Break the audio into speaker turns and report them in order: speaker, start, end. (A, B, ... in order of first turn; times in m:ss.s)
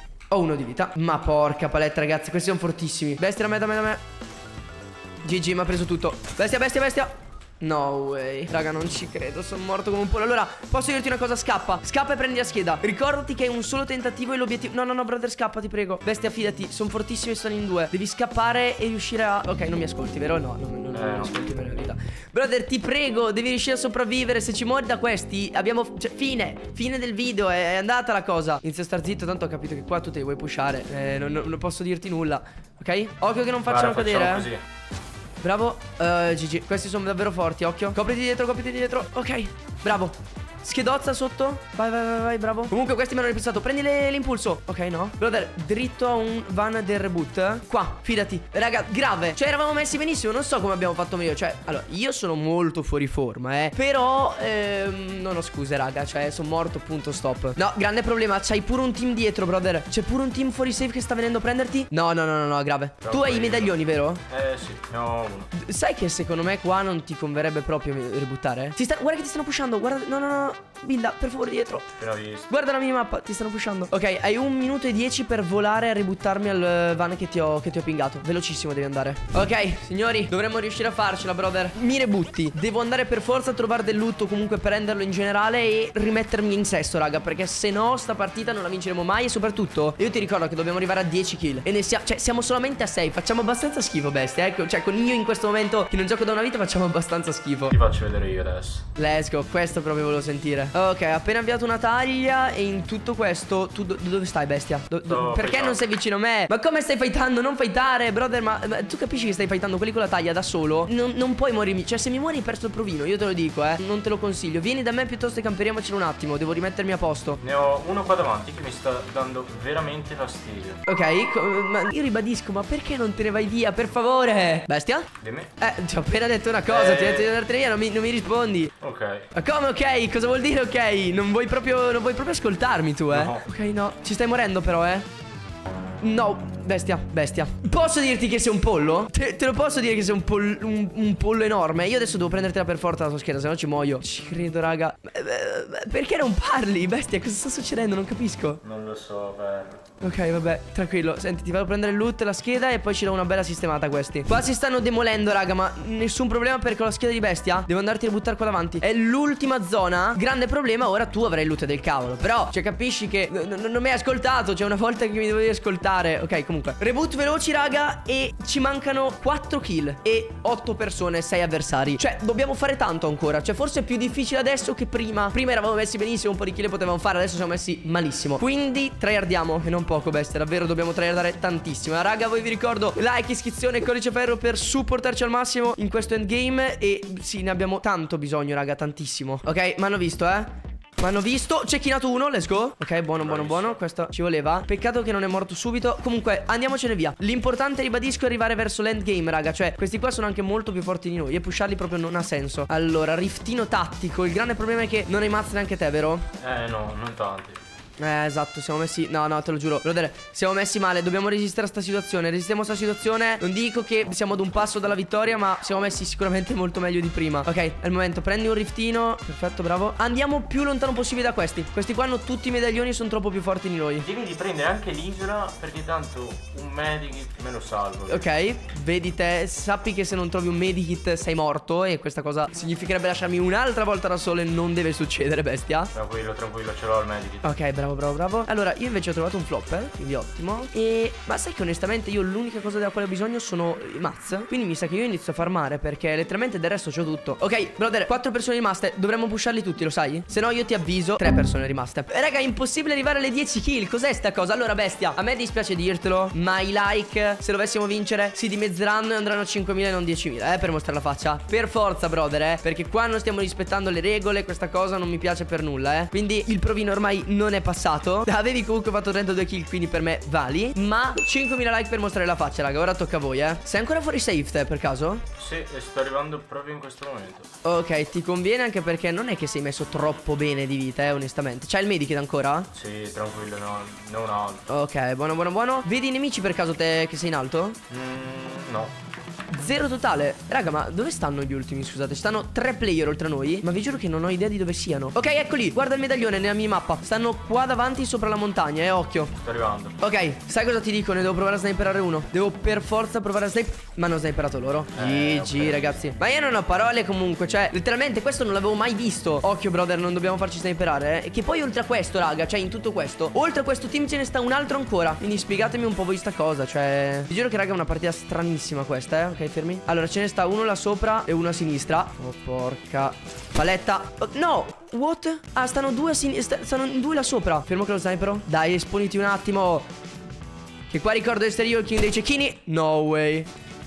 0:00.3-0:04.0 A
0:05.2-0:34.5 A
0:20.9-0:21.4 B
0:33.7-0:34.6 B
0:35.4-1:04.2 A
1:03.0-1:05.5 B
1:05.5-1:11.9 A
1:12.0-1:12.5 B
1:12.5-1:37.8 A
1:37.7-1:38.8 B
1:39.0-1:57.4 A
1:45.0-1:45.9 B
1:57.4-2:00.8 B
2:00.9-2:08.7 A
2:05.2-2:05.5 B
2:06.7-2:07.4 B
2:08.8-2:09.3 B
2:09.3-2:15.1 A
2:13.1-2:13.5 B
2:16.0-2:28.6 A
2:28.6-2:29.8 B
2:30.0-3:26.3 A
3:13.2-3:13.8 B
3:26.4-3:27.6 B
3:28.0-3:44.1 A
3:44.0-3:48.3 B
3:48.1-3:55.9 A
3:55.9-3:57.6 B
3:57.4-4:35.3 A
4:35.4-4:37.5 B
4:37.6-4:42.7 A
4:42.7-4:44.7 B
4:44.7-4:47.8 A
4:47.9-4:48.9 B
4:49.5-4:59.3 A
4:59.3-5:00.0 B
5:00.0-5:29.9 A
5:04.9-5:06.1 B
5:30.9-5:33.5 A